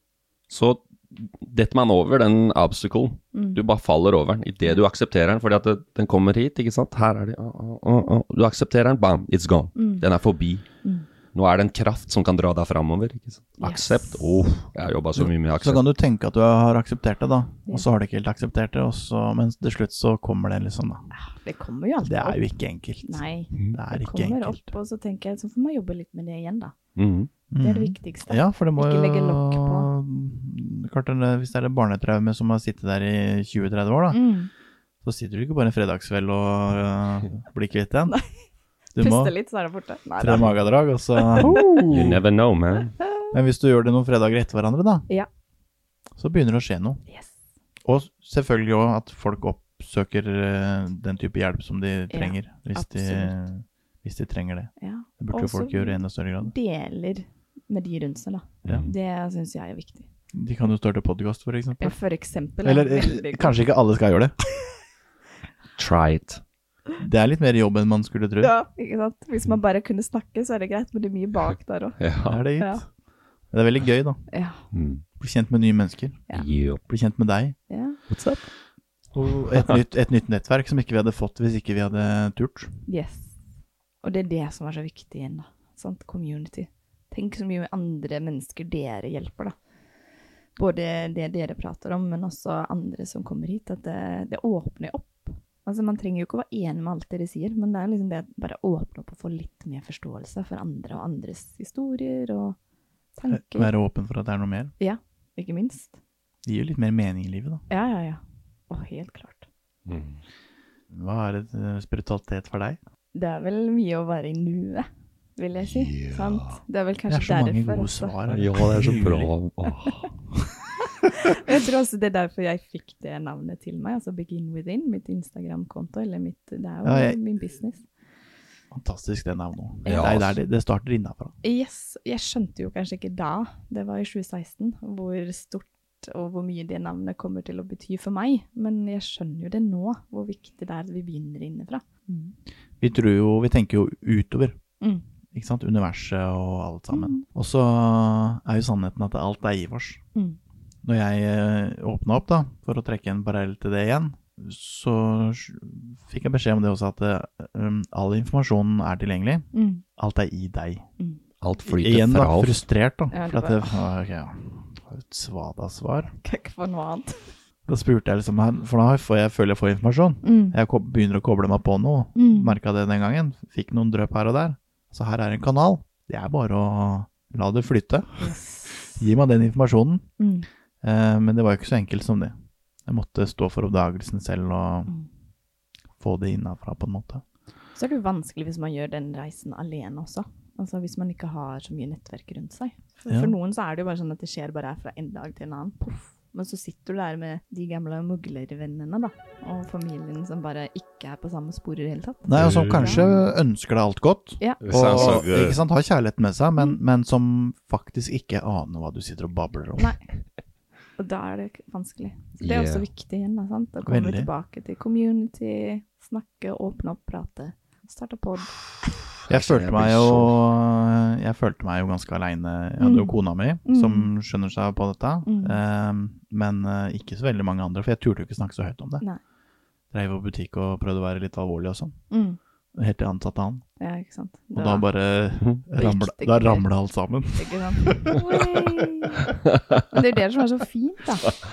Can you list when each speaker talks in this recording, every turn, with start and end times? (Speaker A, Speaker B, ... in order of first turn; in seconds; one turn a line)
Speaker A: 0.5-10.6
Speaker B: 3.3-3.6
Speaker B: 9.8-10.0
Speaker A: 11.3-15.8
Speaker B: 13.6-14.3
Speaker C: 15.2-21.1
Speaker B: 21.1-22.4
Speaker C: 22.0-24.7
Speaker B: 23.0-26.7
Speaker A: 26.9-27.3
Speaker C: 27.5-34.3
Speaker B: 27.6-29.9
Speaker B: 34.1-34.5
Speaker C: 35.0-38.2
Speaker B: 38.1-38.4
Speaker C: 38.9-39.4
Speaker B: 39.0-40.6
Speaker C: 40.2-42.2
Speaker B: 41.2-41.5
Speaker A: 41.6-43.0
Speaker C: 43.3-45.1
Speaker C: 46.1-47.0
Speaker B: 47.1-47.3
Speaker C: 47.8-56.5
Speaker B: 52.1-53.4
Speaker B: 54.8-60.1
Speaker A: 58.6-58.9
Speaker C: 60.3-62.0
Speaker B: 61.8-63.6
Speaker C: 62.6-64.3
Speaker A: 65.8-66.4
Speaker C: 67.0-68.5
Speaker B: 68.4-72.0
Speaker A: 72.0-72.4
Speaker C: 72.2-72.9
Speaker B: 72.6-72.8
Speaker C: 73.5-74.3
Speaker B: 74.3-74.6
Speaker A: 74.7-75.0
Speaker C: 75.2-76.3
Speaker A: 76.3-76.8
Speaker C: 76.8-77.6
Speaker B: 77.7-78.0
Speaker A: 78.1-78.5
Speaker C: 79.1-82.8
Speaker B: 82.9-83.4
Speaker B: 84.0-89.6
Speaker B: 90.5-102.6
Speaker B: 103.1-103.7
Speaker C: 103.3-104.7
Speaker B: 104.8-106.0
Speaker C: 106.4-107.6
Speaker B: 107.7-109.5
Speaker A: 109.8-110.2
Speaker C: 110.9-112.8
Speaker B: 113.1-118.1
Speaker A: 115.6-116.6
Speaker C: 117.1-119.3
Speaker A: 118.3-120.1
Speaker B: 121.2-127.8
Speaker C: 126.8-127.2
Speaker C: 128.7-131.3
Speaker B: 129.8-130.1
Speaker A: 129.8-130.3
Speaker B: 131.4-142.3
Speaker C: 142.8-144.6
Speaker C: 145.3-150.0
Speaker B: 146.9-147.3
Speaker C: 150.8-160.8
Speaker B: 159.5-159.8
Speaker A: 161.4-162.6
Speaker C: 161.7-166.1
Speaker B: 163.1-163.7
Speaker B: 166.2-167.3
Speaker C: 167.7-180.1
Speaker B: 170.2-170.6
Speaker B: 172.2-172.6
Speaker B: 178.2-179.0
Speaker B: 180.2-180.5
Speaker C: 180.8-182.3
Speaker C: 182.8-184.9
Speaker C: 186.0-187.2
Speaker B: 187.7-203.0
Speaker C: 193.1-193.3
Speaker C: 202.2-209.9
Speaker A: 202.3-203.3
Speaker B: 204.4-205.1
Speaker A: 204.6-205.6
Speaker B: 209.8-210.0
Speaker B: 211.0-218.6
Speaker A: 212.4-212.8
Speaker C: 213.8-214.3
Speaker A: 219.3-220.3
Speaker C: 219.3-229.0
Speaker B: 222.8-224.1
Speaker B: 225.2-225.6
Speaker C: 229.9-232.0
Speaker B: 232.1-232.4
Speaker C: 232.7-233.6
Speaker B: 233.8-234.9
Speaker C: 234.5-238.5
Speaker B: 235.8-236.7
Speaker B: 237.3-239.2
Speaker B: 239.9-241.3